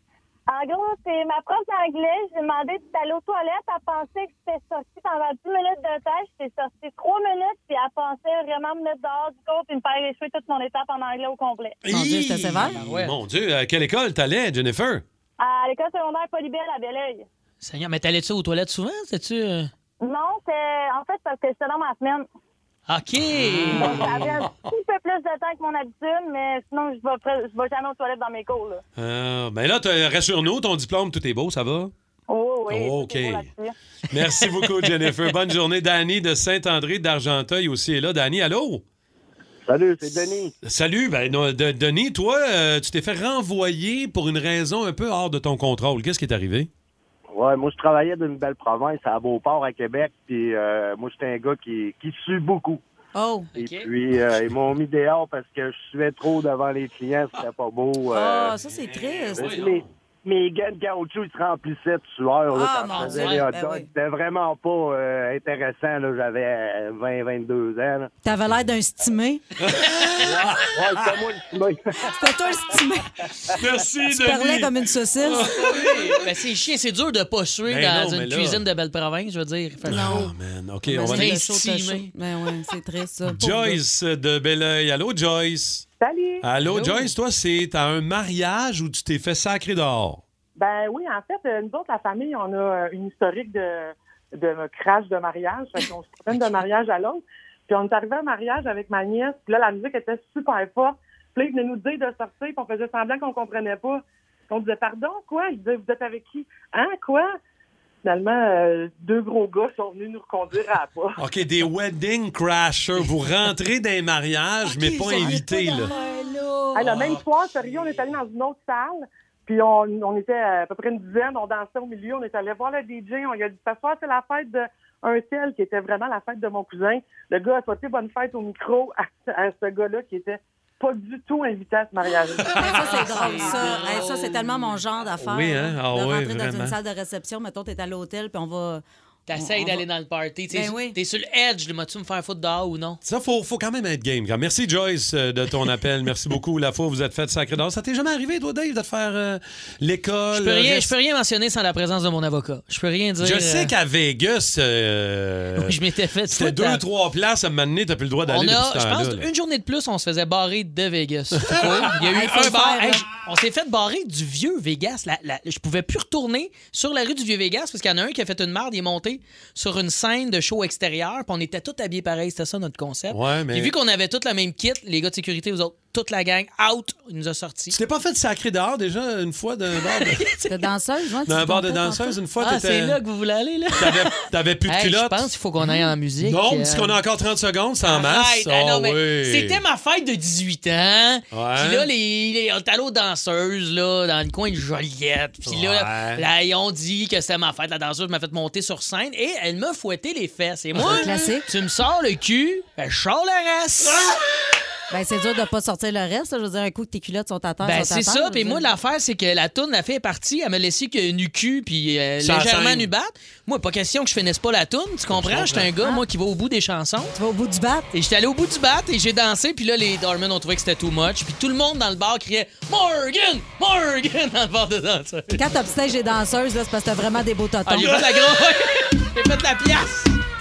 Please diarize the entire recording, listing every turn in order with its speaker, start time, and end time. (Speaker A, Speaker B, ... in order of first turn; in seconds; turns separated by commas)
Speaker A: 0.5-11.8, Speaker B: 11.8-15.0, Speaker C: 11.9-12.7, Speaker D: 12.6-13.2, Speaker A: 15.4-17.3, Speaker D: 17.6-19.7, Speaker A: 20.0-22.2, Speaker D: 22.9-24.2, Speaker B: 23.3-24.5, Speaker A: 23.8-28.8, Speaker B: 29.0-31.9, Speaker A: 32.3-33.7, Speaker B: 32.7-33.5, Speaker B: 34.1-38.8, Speaker D: 34.2-35.1, Speaker E: 39.6-40.5, Speaker B: 40.6-46.7, Speaker E: 47.3-52.8, Speaker C: 53.1-53.5, Speaker D: 53.5-53.9, Speaker E: 53.6-58.5, Speaker C: 58.1-59.5, Speaker B: 58.5-59.9, Speaker E: 59.4-68.1, Speaker C: 62.5-63.9, Speaker D: 62.9-63.5, Speaker C: 68.2-69.4, Speaker B: 69.6-71.2, Speaker E: 70.5-71.8, Speaker C: 72.0-73.2, Speaker B: 73.5-76.2, Speaker C: 74.1-75.5, Speaker D: 75.5-80.1, Speaker B: 77.6-78.6, Speaker C: 79.8-80.3, Speaker B: 79.9-81.4, Speaker C: 80.9-83.8, Speaker D: 81.1-82.1, Speaker B: 83.3-85.8, Speaker F: 86.0-86.5, Speaker B: 86.4-90.2, Speaker D: 86.6-87.1, Speaker F: 90.5-107.3, Speaker F: 108.0-111.2, Speaker B: 111.2-115.9, Speaker D: 115.1-115.4, Speaker C: 115.2-115.9, Speaker D: 116.1-117.0, Speaker F: 116.7-133.5, Speaker B: 116.8-117.2, Speaker D: 117.6-118.0, Speaker B: 132.4-132.9, Speaker C: 132.5-138.8, Speaker D: 132.6-134.8, Speaker B: 135.2-136.8, Speaker D: 139.3-143.0, Speaker C: 139.4-139.8, Speaker C: 140.5-141.0, Speaker B: 143.0-150.9, Speaker D: 150.3-153.7, Speaker B: 153.2-159.3, Speaker D: 155.6-156.8, Speaker D: 158.2-177.8, Speaker B: 161.4-161.7, Speaker C: 161.9-163.1, Speaker B: 173.1-173.7, Speaker B: 177.7-180.2, Speaker D: 179.8-180.7, Speaker C: 180.5-182.2, Speaker B: 181.2-183.0, Speaker D: 182.4-187.0, Speaker B: 183.7-189.6, Speaker D: 187.8-204.0, Speaker B: 191.3-191.9, Speaker B: 195.4-196.2, Speaker B: 200.7-201.1, Speaker C: 200.8-201.5, Speaker C: 204.9-208.7, Speaker D: 207.6-217.2, Speaker B: 212.2-212.9, Speaker B: 215.1-215.7, Speaker C: 217.2-217.9, Speaker D: 217.9-225.4, Speaker C: 225.3-227.9, Speaker D: 227.6-230.2, Speaker B: 227.8-228.4